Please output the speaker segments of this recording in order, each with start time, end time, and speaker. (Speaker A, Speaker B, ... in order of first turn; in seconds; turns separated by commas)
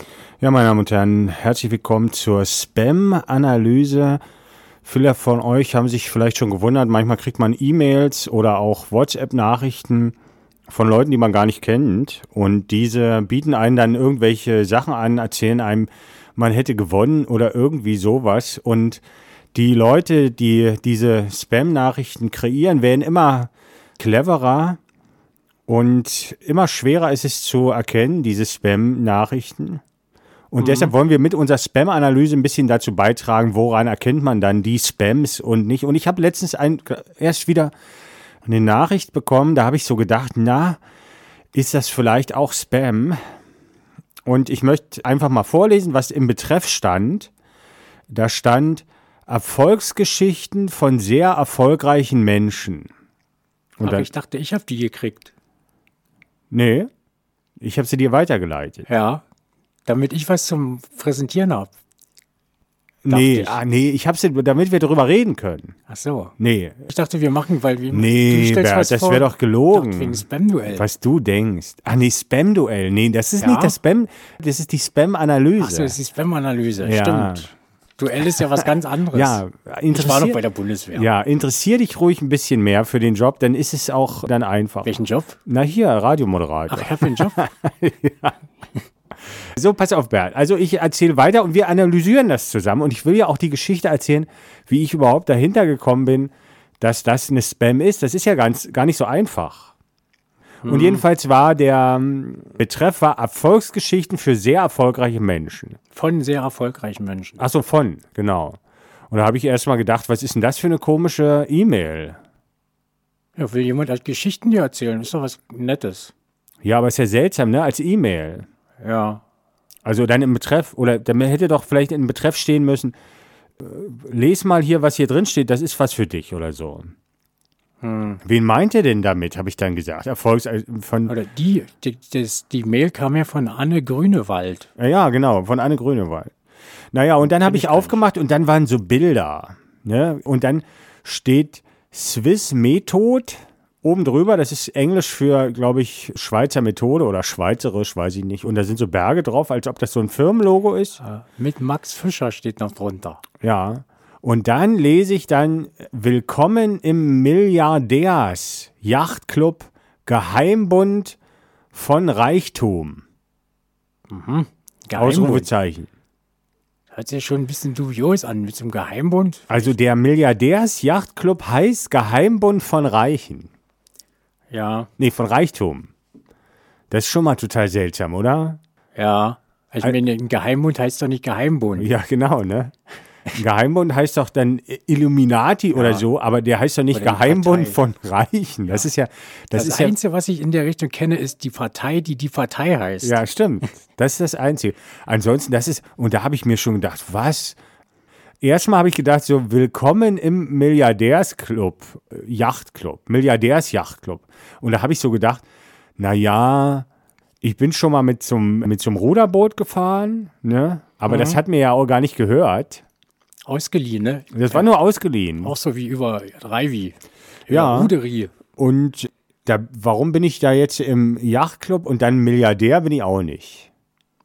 Speaker A: 0.4-4.2, Speaker A: 4.8-10.1, Speaker A: 10.7-19.0, Speaker A: 19.5-24.8, Speaker A: 25.7-29.8, Speaker A: 30.5-37.7, Speaker B: 30.6-30.9, Speaker A: 38.5-40.8, Speaker A: 41.5-43.2, Speaker A: 44.2-47.3, Speaker A: 48.1-52.9, Speaker B: 53.8-55.3, Speaker A: 53.8-54.1, Speaker A: 56.5-56.9, Speaker A: 57.6-58.9, Speaker B: 58.9-59.2, Speaker B: 59.8-61.7, Speaker A: 63.0-65.7, Speaker B: 63.1-63.6, Speaker B: 65.9-70.9, Speaker A: 66.4-66.9, Speaker A: 67.9-76.0, Speaker B: 73.4-73.8, Speaker B: 75.6-81.1, Speaker A: 76.8-77.5, Speaker A: 79.1-80.4, Speaker A: 80.9-84.9, Speaker B: 84.8-85.4, Speaker A: 85.5-88.4, Speaker B: 86.7-87.4, Speaker A: 89.5-99.7, Speaker B: 100.6-101.0, Speaker A: 100.7-105.8, Speaker B: 105.9-107.4, Speaker A: 107.4-108.6, Speaker A: 109.1-112.2, Speaker B: 113.3-116.1, Speaker A: 116.6-118.5, Speaker B: 118.8-119.2, Speaker A: 119.8-123.0, Speaker A: 123.6-126.9, Speaker B: 127.8-128.2, Speaker A: 128.2-131.2, Speaker B: 131.1-134.7, Speaker A: 134.8-136.3, Speaker A: 136.9-151.0, Speaker B: 137.2-137.9, Speaker B: 151.0-153.2, Speaker A: 153.4-161.2, Speaker A: 161.7-163.0, Speaker B: 164.1-165.5, Speaker A: 164.9-165.9, Speaker B: 166.9-169.7, Speaker A: 169.5-173.5, Speaker B: 174.5-174.9, Speaker A: 175.0-175.9, Speaker A: 176.9-178.6, Speaker B: 178.9-181.9, Speaker A: 181.8-182.8, Speaker A: 183.3-189.9, Speaker B: 185.7-186.0, Speaker B: 186.9-187.8, Speaker B: 189.5-193.2, Speaker A: 193.0-197.6, Speaker A: 198.4-205.4, Speaker A: 206.0-206.9, Speaker A: 207.4-212.8, Speaker B: 211.1-211.4, Speaker B: 213.4-214.7, Speaker A: 214.3-215.5, Speaker B: 215.4-218.3, Speaker A: 217.5-217.9, Speaker A: 218.6-223.7